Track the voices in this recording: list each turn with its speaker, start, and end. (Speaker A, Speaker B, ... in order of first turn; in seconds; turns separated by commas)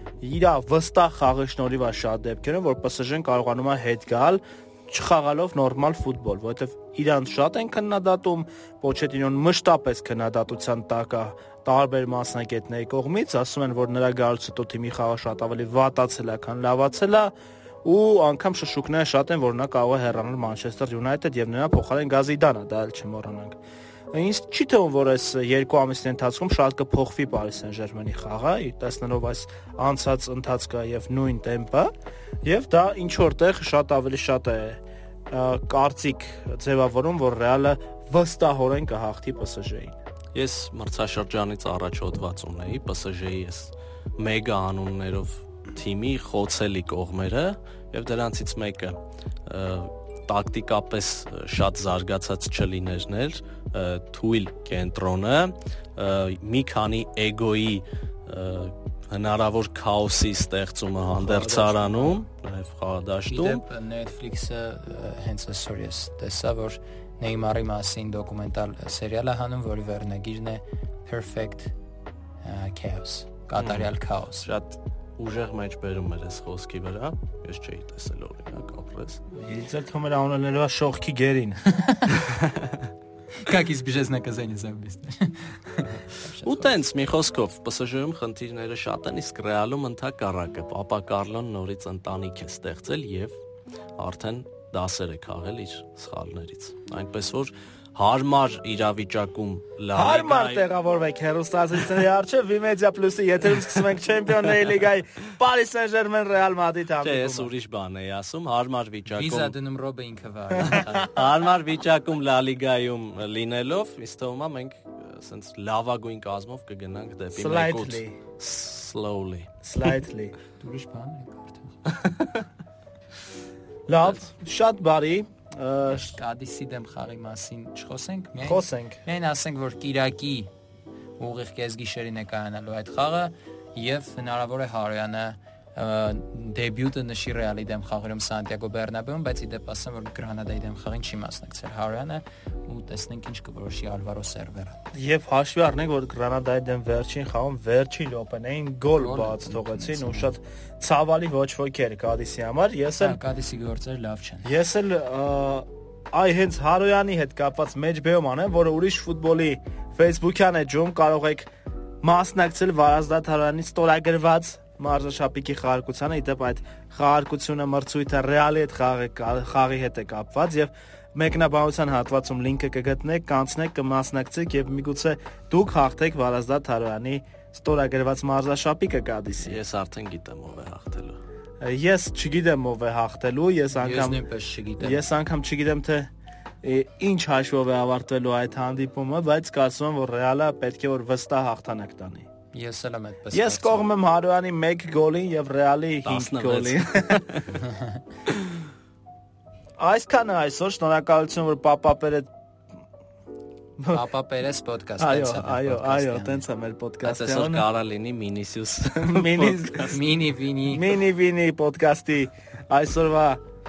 Speaker A: 0.2-17.3, Speaker A: 17.8-23.6, Speaker A: 24.1-31.9, Speaker A: 32.4-40.0, Speaker B: 40.3-63.6, Speaker A: 61.2-62.2, Speaker C: 63.3-71.7, Speaker C: 72.4-74.5, Speaker B: 73.6-73.9, Speaker B: 74.4-79.2, Speaker A: 79.3-81.6, Speaker C: 81.7-82.2, Speaker C: 83.4-86.8, Speaker B: 86.4-93.4, Speaker B: 94.0-100.7, Speaker A: 99.9-107.5, Speaker B: 107.0-109.5, Speaker C: 109.1-111.2, Speaker B: 110.7-119.5, Speaker A: 117.3-118.2, Speaker A: 119.6-120.3, Speaker C: 120.6-121.8, Speaker B: 121.9-122.4, Speaker A: 123.9-126.1, Speaker C: 125.9-130.5, Speaker A: 128.4-129.0, Speaker C: 131.2-144.8, Speaker A: 144.9-153.2, Speaker C: 148.9-150.3, Speaker C: 153.0-154.5, Speaker A: 154.4-161.5, Speaker A: 162.0-179.6, Speaker B: 179.4-181.2, Speaker A: 181.6-184.2, Speaker C: 183.7-185.0, Speaker A: 184.8-186.1, Speaker A: 186.6-192.3, Speaker C: 192.5-193.8, Speaker A: 193.3-197.3, Speaker B: 196.0-197.6, Speaker C: 197.6-198.0, Speaker A: 199.8-202.3, Speaker C: 203.9-206.4, Speaker A: 205.0-207.7, Speaker B: 207.0-210.0, Speaker A: 208.9-210.0, Speaker C: 209.9-210.9, Speaker A: 210.7-213.4